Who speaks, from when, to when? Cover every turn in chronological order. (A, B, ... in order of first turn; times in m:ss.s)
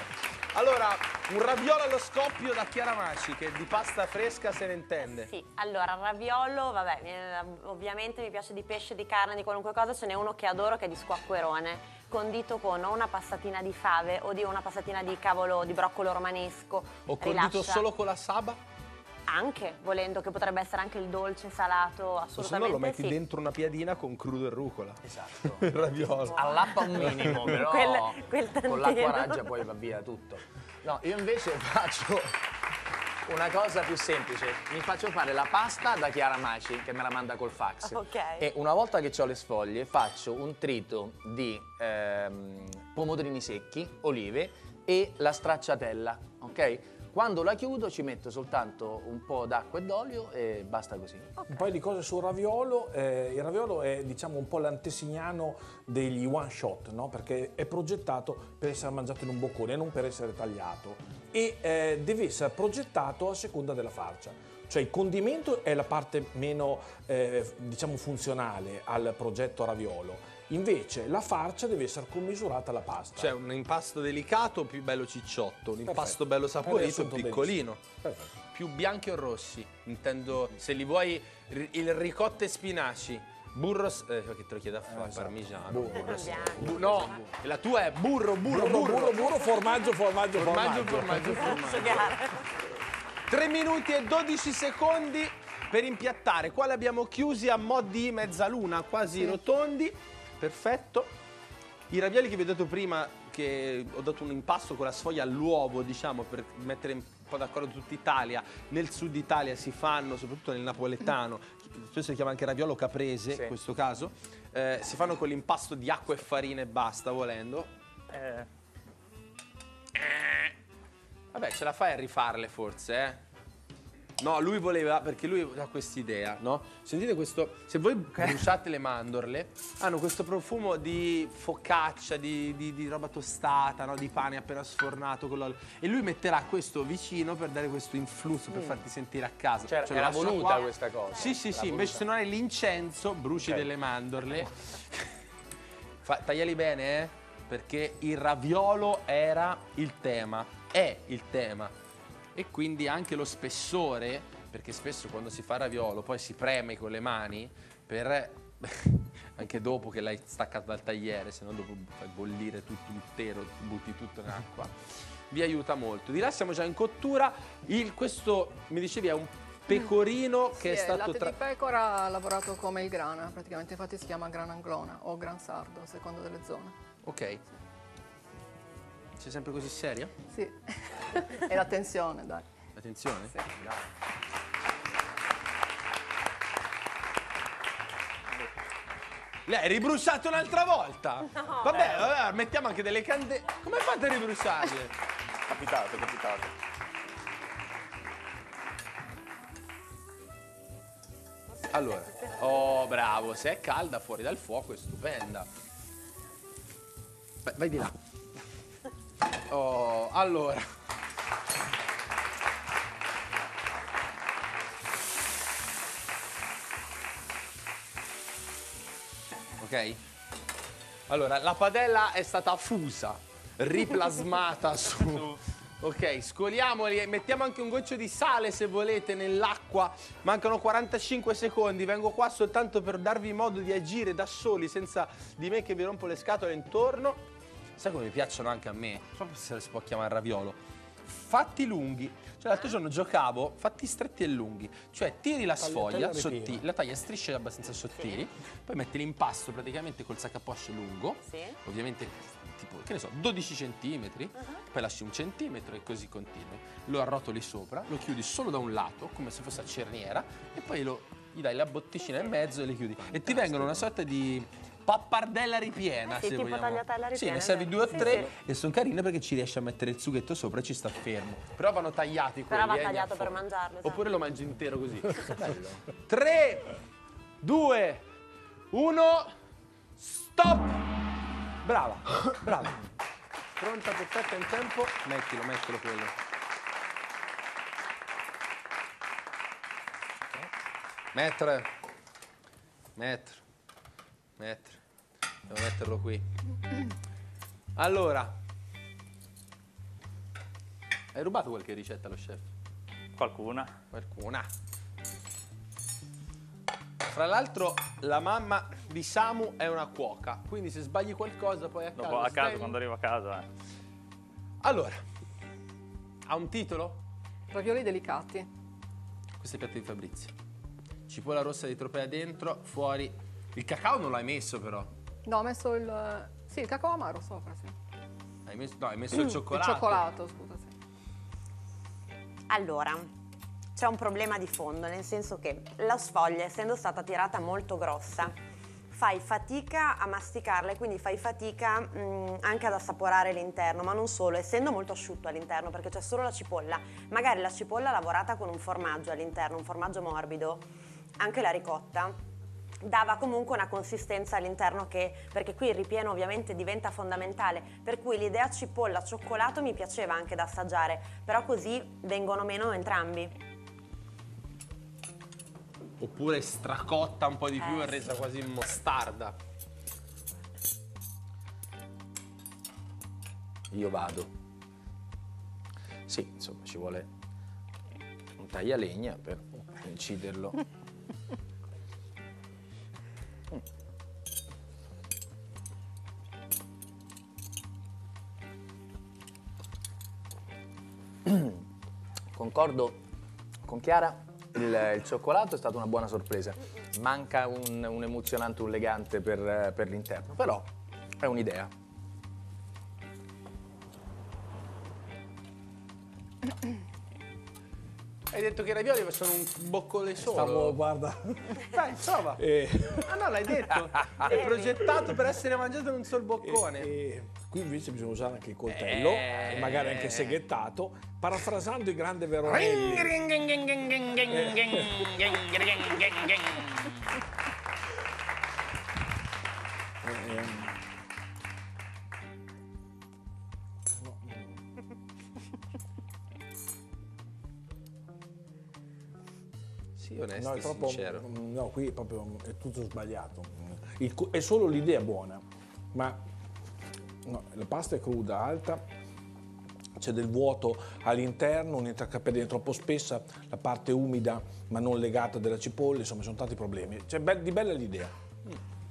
0:00.5-0:05.3 A
0:05.0-0:17.8 B
0:17.1-0:18.6 A
0:19.3-0:23.2 B
0:22.4-0:26.4 A
0:25.0-0:32.3 C
0:26.2-0:29.6 B
0:33.2-0:51.4 C
0:37.8-0:38.5 B
0:51.5-1:13.3 D
1:13.2-1:17.8 A
1:15.8-1:18.4 D
1:18.5-1:29.3 A
1:24.9-1:27.1 D
1:25.9-1:27.2 B
1:28.4-1:31.6 D
1:30.4-1:32.1 A
1:31.5-1:32.5 B
1:33.3-1:41.1 A
1:41.9-1:57.7 A
1:53.3-1:53.6 C
1:58.1-1:58.5 E
1:59.9-2:00.6 A
2:01.3-2:03.2 A
2:04.2-2:25.1 A
2:19.7-2:22.0 C
2:19.7-2:21.6 B
2:26.0-2:31.7 A
2:32.3-2:51.3 A
2:50.6-2:56.7 F
2:57.0-2:57.4 A
2:59.2-3:00.1 A
3:00.3-3:02.5 F
3:02.8-3:03.3 A
3:09.4-3:14.9 A
3:11.4-3:11.8 B
3:15.5-3:16.5 E
3:21.7-3:25.5 A
3:27.4-3:27.9 A
3:29.5-3:30.7 A
3:39.6-3:40.0 A
3:41.1-3:57.2 A
3:57.8-4:35.4 A
4:05.6-4:06.6 D
4:07.9-4:08.2 B
4:11.3-4:11.6 B
4:23.0-4:23.9 C
4:26.1-4:28.3 B
4:32.5-4:34.1 B
4:35.4-4:35.8 C
4:36.1-4:36.8 A
4:37.4-4:38.0 A
4:38.7-4:39.3 A
4:40.0-4:40.8 A
4:41.6-4:42.8 A
4:43.6-4:46.1 A
4:51.1-4:51.7 A
4:53.0-4:53.4 A
4:54.4-4:54.8 A
4:55.5-4:56.2 A
4:57.8-4:58.4 A
5:01.1-5:02.5 A
5:03.2-5:03.7 E
5:03.9-5:04.5 A
5:07.1-5:12.8 A
5:12.0-5:13.5 E
5:14.6-5:15.0 A
5:16.3-5:17.0 A
5:17.5-5:18.5 F
5:19.4-5:20.3 A
5:21.1-5:24.9 A
5:25.3-5:27.7 F
5:28.4-5:30.0 A
5:29.4-5:30.7 F
5:32.5-5:33.1 B
5:33.8-5:38.3 B
5:38.9-5:50.7 B
5:51.2-5:52.2 B
5:52.8-6:03.3 B
6:06.0-6:09.4 A
6:07.6-6:08.1 B
6:13.7-6:14.3 C
6:16.1-6:17.1 C
6:18.4-6:20.6 C
6:31.2-6:31.6 C
6:32.3-6:33.0 C
6:33.6-6:40.7 C
6:41.2-6:41.7 C
6:48.3-6:50.8 A
6:50.2-6:51.7 D
6:51.6-6:52.4 A
6:52.4-6:53.2 D
6:53.0-6:56.9 A
6:54.0-6:55.0 D
6:56.4-7:03.2 D
6:58.7-7:00.4 A
7:02.5-7:06.9 A
7:04.3-7:05.4 D
7:10.0-7:10.8 D
7:14.0-7:14.6 D
7:20.0-7:21.2 A
7:20.4-7:26.2 D
7:27.2-7:28.8 D
7:30.0-7:38.1 D